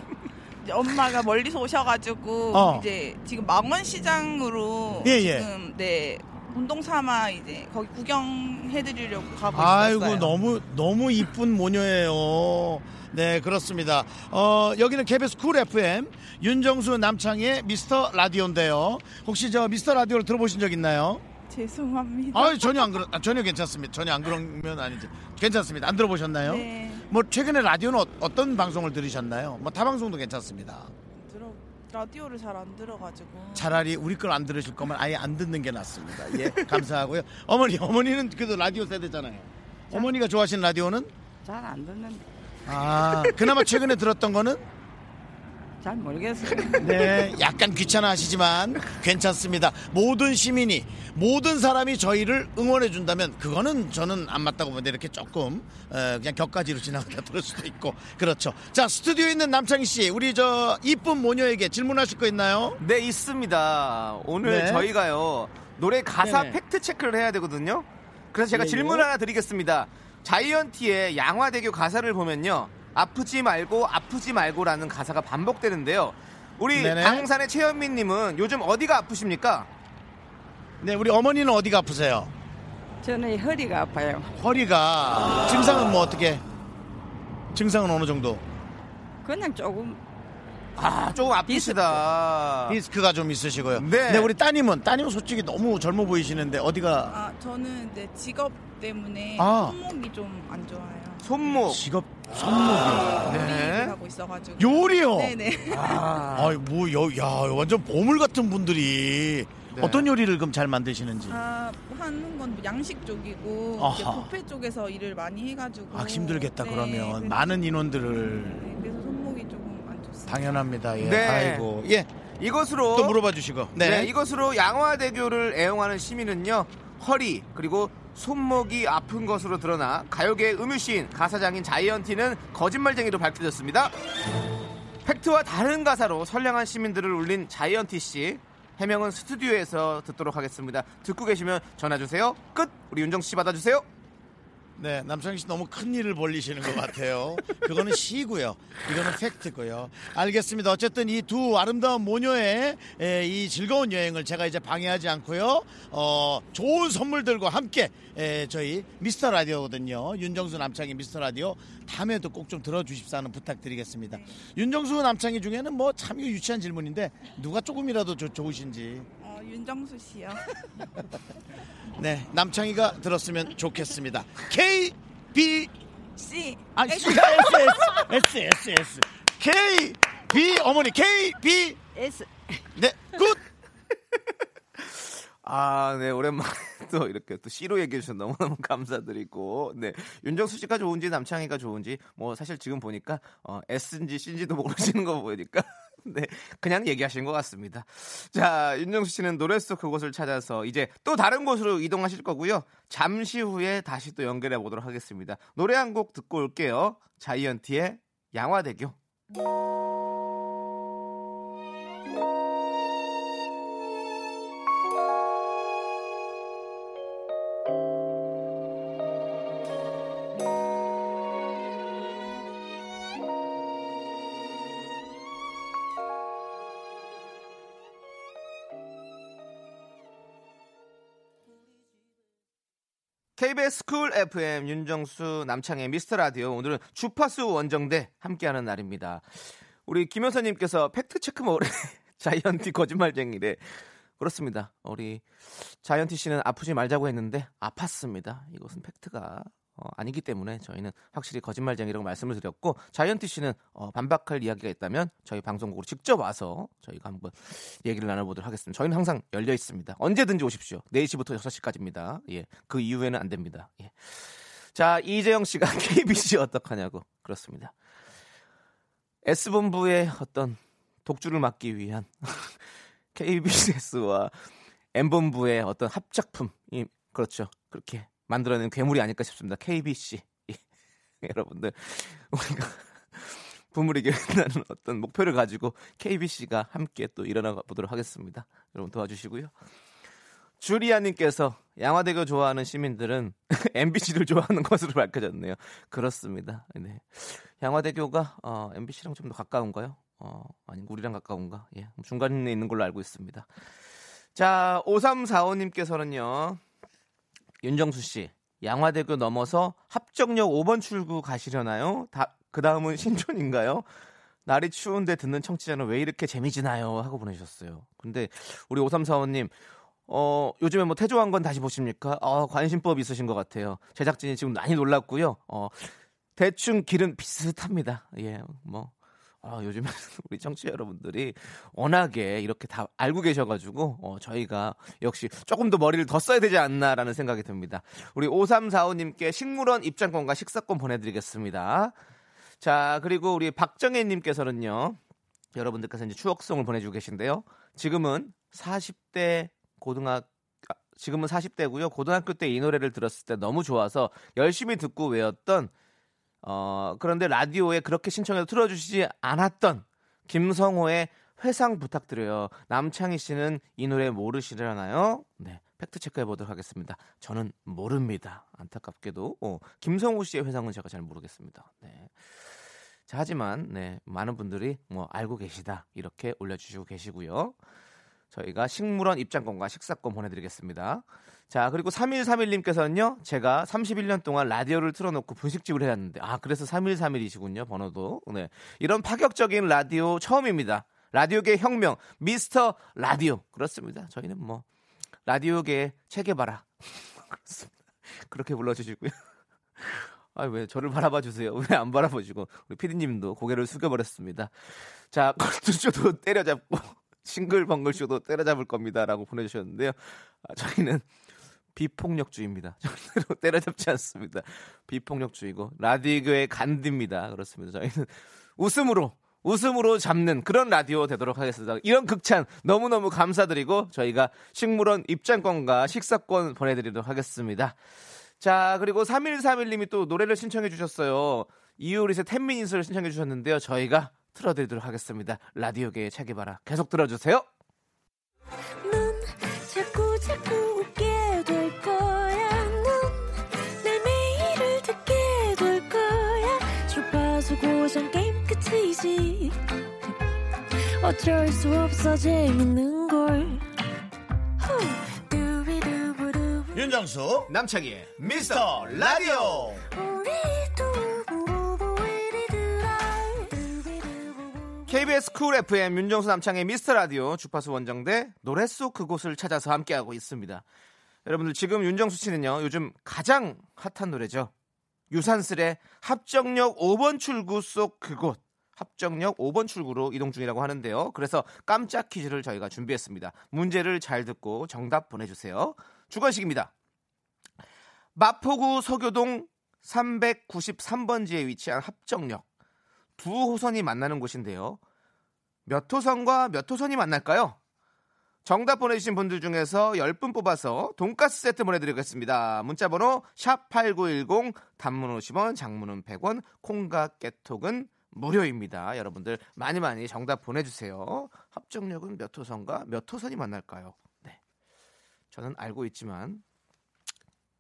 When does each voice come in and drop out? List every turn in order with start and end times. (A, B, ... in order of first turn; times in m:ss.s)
0:00.6-0:10.3 A
0:02.5-0:02.9 B
0:05.0-0:05.5 B
0:09.5-0:21.2 B
0:21.5-0:23.0 A
0:22.3-0:30.9 B
0:26.4-0:27.1 A
0:31.1-0:33.8 A
0:33.6-0:41.1 B
0:41.4-0:42.2 C
0:42.7-0:44.6 B
0:45.8-0:47.2 C
0:46.8-1:02.8 B
1:02.8-1:19.7 D
1:04.4-1:04.9 B
1:06.2-1:06.6 B
1:08.5-1:09.1 B
1:16.7-1:17.3 B
1:20.8-1:22.3 B
1:23.0-1:24.3 C
1:24.4-1:26.4 B
1:27.5-1:28.4 B
1:29.2-1:30.0 C
1:30.8-1:32.8 D
1:31.4-1:32.0 C
1:32.7-1:37.2 B
1:33.8-1:34.3 D
1:37.1-1:41.3 A
1:39.4-1:39.8 B
1:41.2-1:41.8 D
1:41.7-1:43.5 B
1:43.2-1:46.0 A
1:43.3-1:44.0 D
1:44.6-1:45.4 B
1:45.7-1:46.6 D
1:46.3-1:51.4 B
1:49.7-1:50.1 D
1:51.3-1:57.4 A
1:53.8-1:54.3 B
1:55.9-1:58.7 B
1:58.3-2:00.7 A
2:00.3-2:02.1 B
2:01.0-2:01.7 D
2:02.4-2:03.2 D
2:02.9-2:04.1 B
2:03.8-2:13.9 D
2:15.0-2:23.9 D
2:24.8-2:49.1 B
2:49.2-2:50.5 A
2:52.0-2:55.7 B
2:56.2-2:58.0 A
2:56.8-3:01.8 B
3:02.0-3:02.6 C
3:02.8-3:03.4 B
3:04.8-3:29.0 D
3:53.4-4:27.7 D
4:29.2-4:32.6 D
4:33.1-4:34.3 D
4:35.0-4:40.6 D
4:41.2-4:49.5 D
4:50.6-5:03.5 D
5:04.4-5:06.6 D
5:07.6-5:13.9 D
5:14.5-5:19.5 D
5:20.1-5:42.0 D
5:42.6-5:45.0 D
5:45.5-5:55.7 D
5:56.4-6:12.5 D
6:13.1-6:17.6 D
6:18.3-6:34.6 D
6:35.3-6:39.2 D
6:39.8-6:51.1 D
6:51.8-7:07.8 D
7:08.4-7:17.5 D
7:18.8-7:29.6 E
7:30.8-7:33.6 E
7:34.6-7:36.8 E
7:36.7-7:37.5 B
7:37.5-7:39.8 D
7:38.2-7:39.9 B
7:39.9-7:44.8 E
7:44.9-7:50.6 D
7:51.3-7:54.5 D
7:55.1-8:06.7 D
8:08.2-8:12.5 D
8:13.2-8:14.8 D
8:15.7-8:17.6 D
8:18.4-8:34.4 D
8:35.3-8:36.4 D